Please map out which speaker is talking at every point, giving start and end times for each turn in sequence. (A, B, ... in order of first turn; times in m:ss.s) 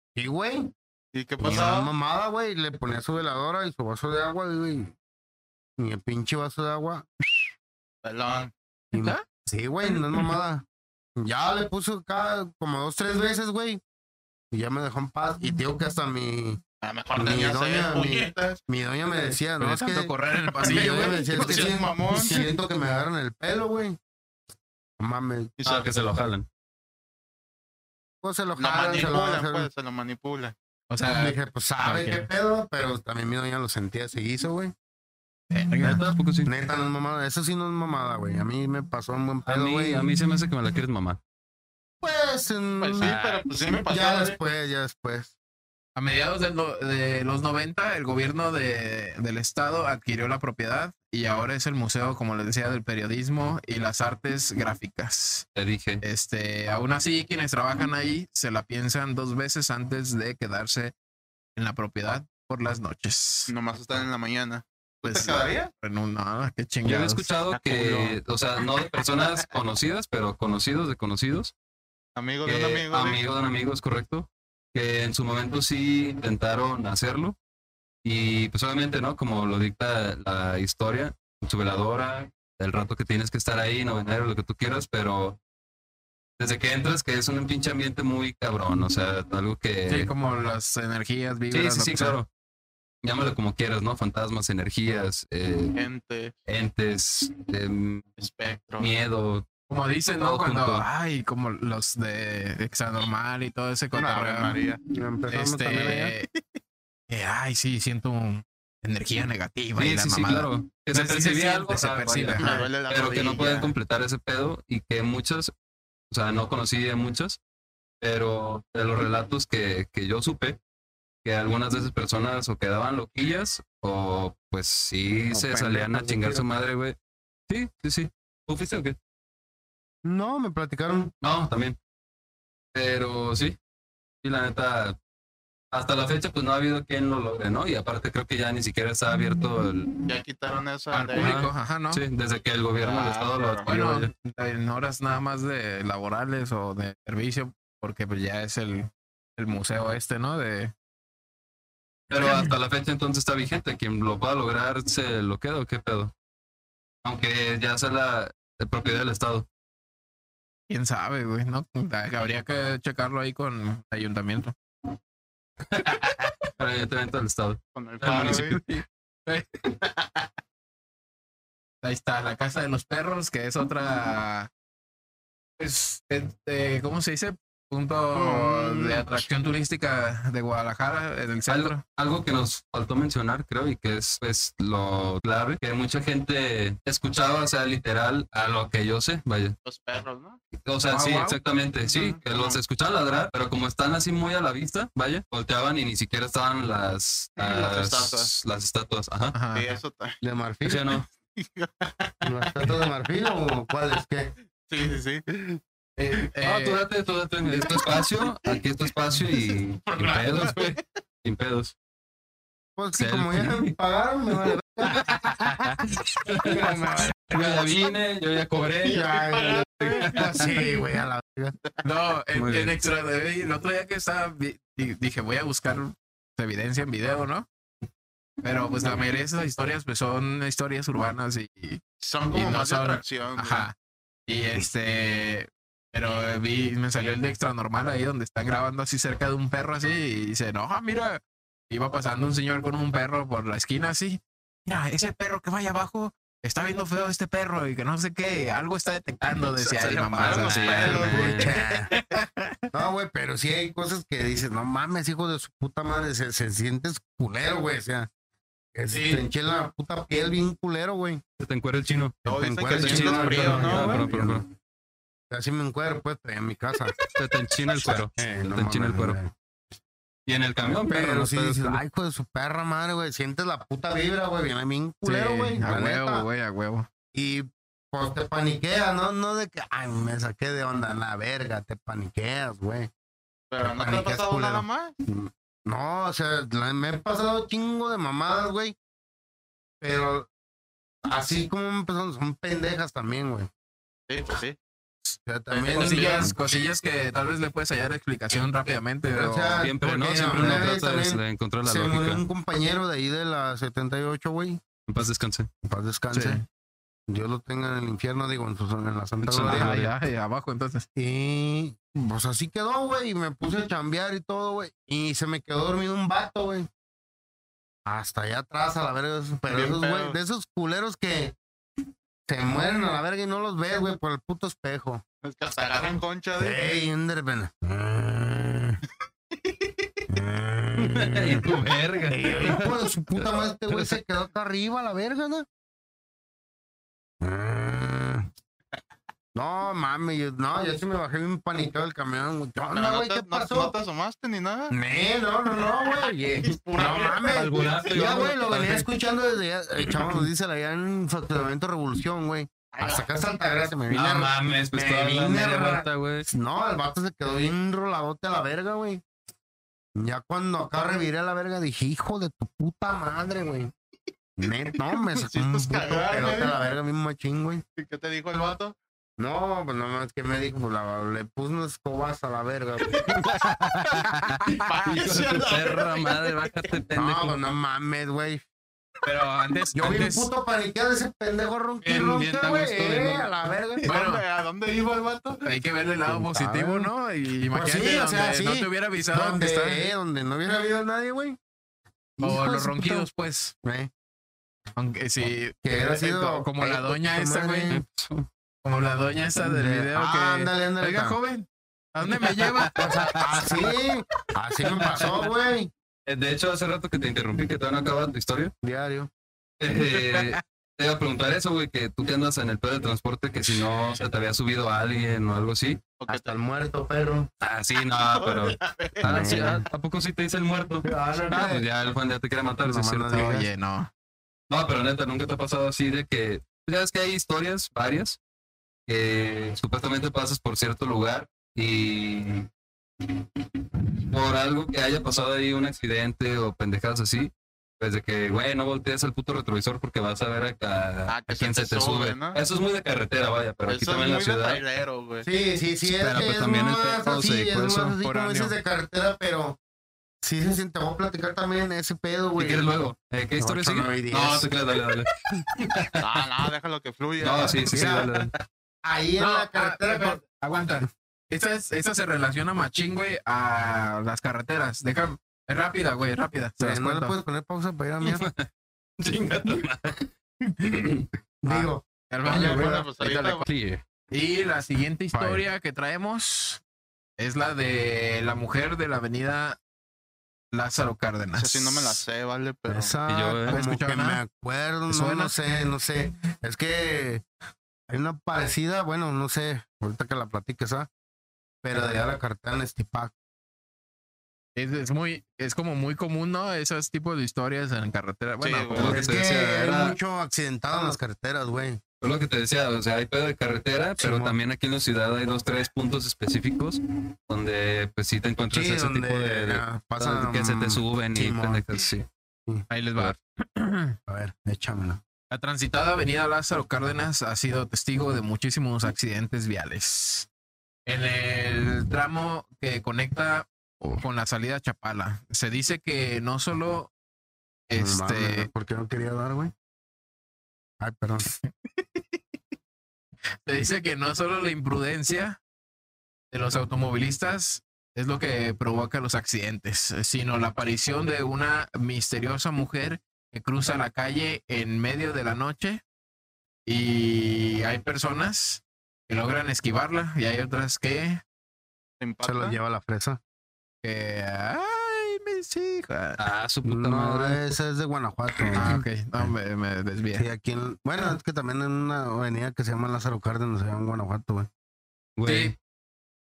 0:00.2-0:00.7 A
0:01.1-0:01.9 B
0:01.4-0:04.9 A
0:05.8-0:07.1 A
0:08.0-0:08.5 B
0:08.9-0:10.6 A
0:08.9-0:09.2 C
0:11.2-0:13.8 A
0:14.5-0:16.6 A
0:16.8-0:18.6 B
0:17.1-0:24.0 A
0:19.6-0:21.7 C
0:20.6-0:22.4 B
0:25.0-0:25.5 A
0:25.6-0:25.9 B
0:25.6-0:26.5 D
0:28.2-0:29.7 A
0:28.6-0:30.5 B
0:30.9-0:32.3 C
0:31.1-0:34.7 A
0:35.5-0:36.0 C
0:35.8-0:36.5 D
0:36.4-0:40.0 A
0:39.5-0:41.2 D
0:42.0-0:43.1 A
0:42.8-0:44.4 B
0:43.0-0:43.4 D
0:43.8-0:45.3 A
0:46.0-0:55.4 C
0:55.5-0:56.0 D
0:56.0-1:00.9 C
1:01.6-1:03.5 C
1:03.5-1:05.7 B
1:05.0-1:07.3 C
1:06.8-1:11.5 D
1:07.5-1:09.6 B
1:12.2-1:13.2 B
1:12.4-1:17.4 D
1:18.0-1:25.4 D
1:26.4-1:30.1 D
1:29.9-1:32.2 C
1:31.5-1:32.3 D
1:33.0-1:35.8 D
1:35.7-1:36.4 B
1:36.4-1:38.1 D
1:38.2-1:38.9 B
1:38.8-1:39.5 D
1:39.7-1:44.6 C
1:40.2-1:40.8 D
1:43.9-1:44.8 B
1:44.9-1:46.2 A
1:45.3-1:46.3 C
1:47.1-1:52.6 C
1:49.8-1:55.5 D
1:52.4-1:53.7 B
1:56.1-1:57.4 D
1:58.0-2:00.6 D
2:01.2-2:07.0 D
2:05.3-2:06.6 A
2:07.5-2:09.0 D
2:10.0-2:11.1 A
2:11.2-2:11.8 D
2:12.7-2:13.6 D
2:14.2-2:15.0 D
2:15.7-2:19.9 D
2:20.1-2:21.3 B
2:20.9-2:22.0 C
2:21.2-2:24.1 D
2:22.8-2:23.7 B
2:23.6-2:30.7 C
2:32.1-2:36.1 D
2:37.0-2:39.5 D
2:40.7-2:44.5 C
2:45.7-2:48.6 D
2:47.7-2:48.6 B
2:48.1-2:49.9 C
2:51.8-2:54.5 C
2:55.6-3:01.8 C
2:58.1-2:59.1 B
3:01.5-3:09.6 D
3:09.6-3:10.4 B
3:10.6-3:19.4 D
3:10.9-3:11.4 C
3:11.8-3:12.6 B
3:17.4-3:18.3 B
3:19.3-3:19.6 C
3:19.5-3:20.2 B
3:20.2-3:20.9 A
3:20.6-3:21.1 D
3:21.4-3:22.7 B
3:22.2-3:24.3 A
3:24.6-3:25.5 B
3:26.0-3:26.8 C
3:26.4-3:31.7 D
3:29.9-3:30.8 B
3:32.8-3:35.8 A
3:32.9-3:33.7 D
3:34.9-3:39.2 D
3:36.4-3:37.5 A
3:38.8-3:40.3 B
3:38.8-3:41.5 A
3:39.8-3:40.4 D
3:41.8-3:47.5 C
3:42.3-3:42.7 D
3:48.4-3:53.7 C
3:52.0-3:53.7 B
3:54.3-4:12.5 C
4:09.7-4:11.5 D
4:10.1-4:11.4 B
4:11.1-4:11.9 A
4:12.7-4:18.1 A
4:18.7-4:21.2 A
4:21.4-4:22.2 D
4:22.2-4:24.0 B
4:22.2-4:24.4 A
4:22.8-4:24.4 D
4:25.3-4:27.0 A
4:27.1-4:29.2 D
4:27.8-4:29.3 A
4:30.3-4:31.8 D
4:30.9-4:36.2 A
4:35.0-4:36.9 C
4:37.1-4:42.9 A
4:43.5-4:44.9 B
4:43.6-4:48.8 A
4:49.8-4:50.3 A
4:51.0-4:53.5 A
4:54.1-4:54.6 B
4:55.2-4:56.3 A
4:55.5-4:56.3 B
4:55.7-4:59.6 C
4:59.1-5:04.6 A
4:59.6-5:02.2 D
5:00.4-5:00.6 C
5:04.9-5:05.5 D
5:05.6-5:06.4 A
5:06.1-5:06.4 C
5:07.1-5:09.9 A
5:09.2-5:09.8 D
5:09.4-5:10.8 C
5:11.0-5:16.7 A
5:17.8-5:21.4 A
5:19.5-5:20.2 B
5:22.3-5:25.0 A
5:25.2-5:26.8 B
5:26.4-5:28.8 A
5:29.4-5:30.0 B
5:30.1-5:31.5 A
5:30.8-5:33.9 D
5:32.1-5:35.4 A
5:37.2-5:38.3 A
5:39.3-5:43.7 A
5:42.7-5:44.7 B
5:44.7-5:59.0 A
5:46.4-5:48.2 B
5:47.2-5:48.8 D
5:52.7-5:53.0 B
5:53.9-5:56.3 D
6:00.0-6:03.7 A
6:04.4-6:07.6 A
6:04.9-6:06.6 B
6:07.8-6:08.8 B
6:09.2-6:13.2 A
6:13.3-6:17.4 D
6:14.6-6:16.6 B
6:17.0-6:18.4 A
6:19.0-6:20.3 C
6:19.7-6:23.8 A
6:21.8-6:23.0 C
6:22.3-6:23.1 D
6:23.8-6:24.2 C
6:23.8-6:25.4 B
6:25.4-6:29.9 C
6:26.0-6:26.9 A
6:27.5-6:31.4 A
6:32.2-6:33.1 A
6:32.2-6:33.5 C
6:33.6-6:33.9 A
6:34.8-6:37.7 C
6:35.6-6:37.8 A
6:37.7-6:38.3 D
6:38.6-6:42.9 C
6:39.4-6:41.2 A
6:42.7-6:45.7 A
6:44.6-6:45.1 C
6:46.0-6:48.5 D
6:48.6-6:49.1 A
6:49.6-6:55.8 D
6:49.9-6:50.4 C
6:53.8-6:54.0 C
6:56.0-6:56.4 B
6:56.1-6:57.3 A
6:57.4-7:03.2 D
6:58.0-6:59.6 B
6:59.0-6:59.6 A
7:00.8-7:01.6 A
7:02.6-7:03.5 A
7:03.1-7:03.9 C
7:04.5-7:08.2 D
7:08.9-7:12.5 D
7:13.0-7:24.6 D
7:21.1-7:22.4 B
7:23.7-7:25.3 B
7:25.2-7:29.6 A
7:25.8-7:28.0 D
7:28.0-7:28.6 C
7:30.2-7:32.7 A
7:32.4-7:36.0 D
7:33.4-7:34.5 A
7:36.0-7:38.0 B
7:37.2-7:38.3 D
7:37.6-7:38.2 A
7:38.8-7:40.2 A
7:39.2-7:47.2 C
7:46.6-7:48.3 A
7:48.0-7:48.5 D
7:49.0-7:50.1 D
7:50.6-7:51.0 D
7:50.6-7:50.9 A
7:51.4-7:52.8 A
7:51.5-7:53.4 C
7:52.2-7:53.4 B
7:53.4-7:53.8 D
7:54.1-7:56.6 C
7:55.1-7:55.4 A
7:57.2-7:59.6 C
8:00.5-8:02.0 C
8:01.4-8:02.9 B
8:02.7-8:07.2 A
8:03.1-8:03.6 D
8:03.5-8:04.2 C
8:04.9-8:05.3 C
8:07.9-8:10.9 A
8:11.6-8:13.1 A
8:14.6-8:19.0 C
8:18.4-8:19.0 B
8:18.7-8:20.0 D
8:18.9-8:21.8 A
8:22.0-8:32.1 D
8:24.0-8:24.4 A
8:28.5-8:31.6 A
8:32.7-8:34.0 C
8:34.1-8:35.0 A
8:35.3-8:40.3 C
8:40.8-8:46.9 C
8:47.7-8:48.5 C
8:47.8-8:49.5 A
8:50.8-8:51.3 A
8:53.4-8:55.4 C
8:56.3-9:05.8 C
9:06.7-9:11.2 C
9:12.0-9:12.6 B
9:12.2-9:13.2 A
9:13.8-9:16.2 C
9:16.2-9:17.4 D
9:16.6-9:19.3 A
9:18.5-9:20.2 C
9:20.2-9:24.5 A
9:25.2-9:25.5 D
9:25.2-9:25.5 C